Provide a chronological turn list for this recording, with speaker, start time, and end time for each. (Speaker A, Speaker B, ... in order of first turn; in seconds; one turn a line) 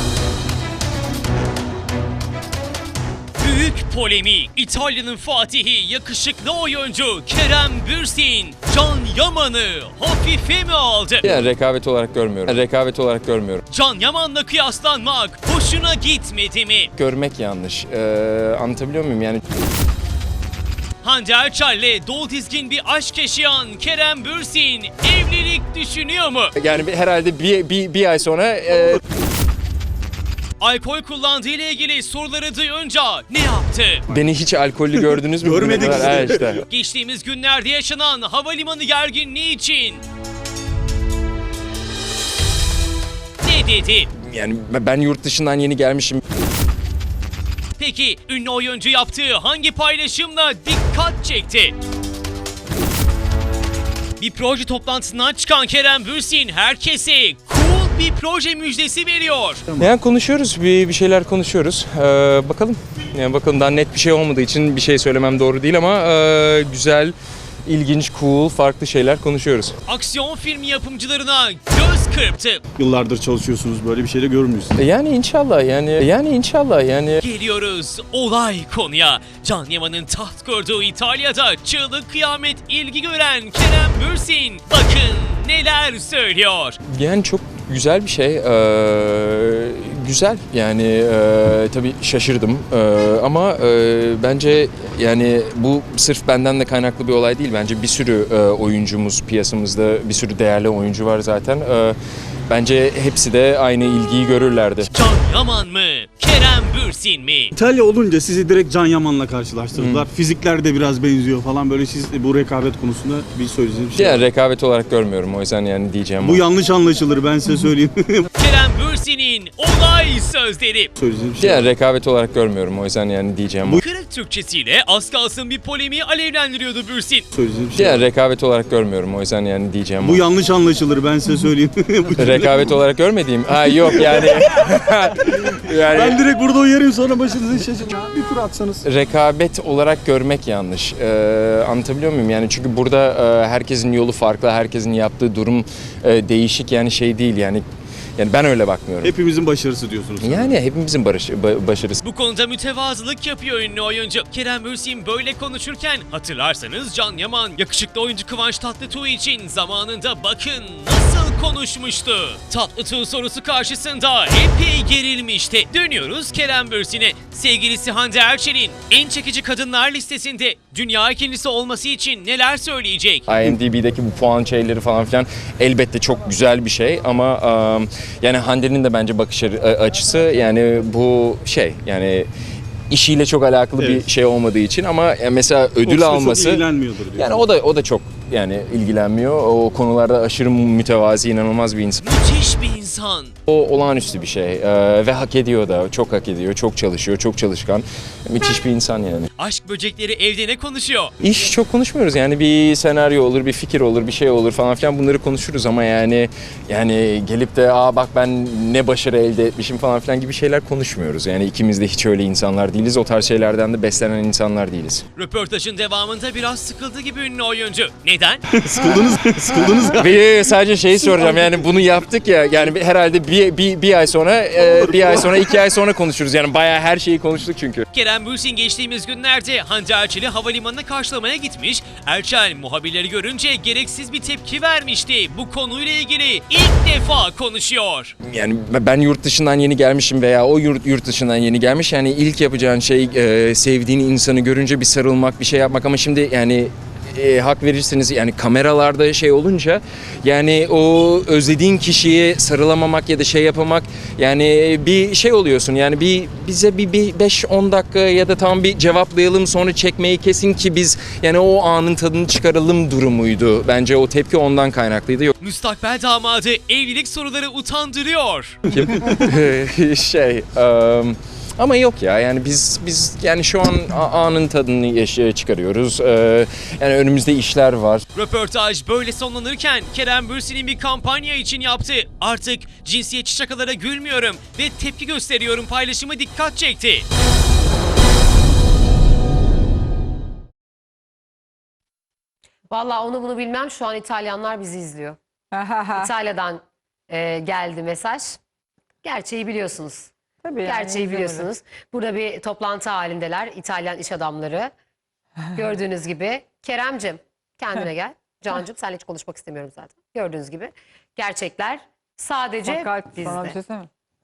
Speaker A: 3.4-11.3
Speaker B: 11.2-13.6
Speaker A: 13.7-16.9
Speaker B: 17.0-19.4
Speaker A: 21.0-26.5
Speaker B: 26.6-29.0
Speaker A: 30.6-34.1
Speaker B: 34.1-36.6
Speaker C: 34.9-36.6
Speaker A: 36.7-40.0
Speaker A: 43.4-44.1
Speaker B: 44.2-46.2
Speaker A: 47.8-51.7
Speaker A: 54.2-59.6
Speaker B: 59.8-67.1
Speaker B: 67.7-69.8
Speaker A: 69.9-72.6
Speaker C: 72.7-74.8
Speaker B: 74.8-77.2
Speaker A: 77.2-86.8
Speaker B: 86.9-102.0
Speaker B: 102.5-104.9
Speaker A: 104.9-107.5
Speaker C: 107.5-114.3
Speaker B: 109.8-110.0
Speaker B: 114.0-116.4
Speaker C: 116.2-118.3
Speaker A: 118.3-120.9
Speaker C: 121.0-121.7
Speaker B: 121.4-123.8
Speaker A: 123.8-127.3
Speaker C: 127.3-128.1
Speaker B: 127.7-130.2
Speaker C: 130.0-132.8
Speaker B: 132.2-136.2
Speaker C: 133.6-138.8
Speaker B: 138.8-147.6
Speaker B: 148.2-149.1
Speaker C: 149.0-150.6
Speaker B: 150.2-152.0
Speaker A: 152.0-173.3
Speaker B: 173.3-182.3
Speaker B: 182.9-186.6
Speaker C: 183.8-184.1
Speaker C: 185.8-187.5
Speaker B: 187.2-192.0
Speaker A: 192.0-193.3
Speaker B: 193.5-199.3
Speaker A: 199.4-201.1
Speaker B: 201.2-215.0
Speaker A: 215.2-218.4
Speaker C: 218.5-220.1
Speaker B: 219.9-227.8
Speaker C: 221.1-221.5
Speaker C: 224.6-225.5
Speaker A: 227.9-238.1
Speaker B: 238.2-265.3
Speaker A: 265.4-268.7
Speaker B: 268.7-278.0
Speaker A: 278.1-287.0
Speaker D: 292.7-295.2
Speaker E: 295.5-296.1
Speaker D: 295.9-298.4
Speaker D: 299.0-300.1
Speaker E: 300.4-301.5
Speaker D: 300.6-304.7
Speaker D: 305.5-313.6
Speaker E: 312.6-313.9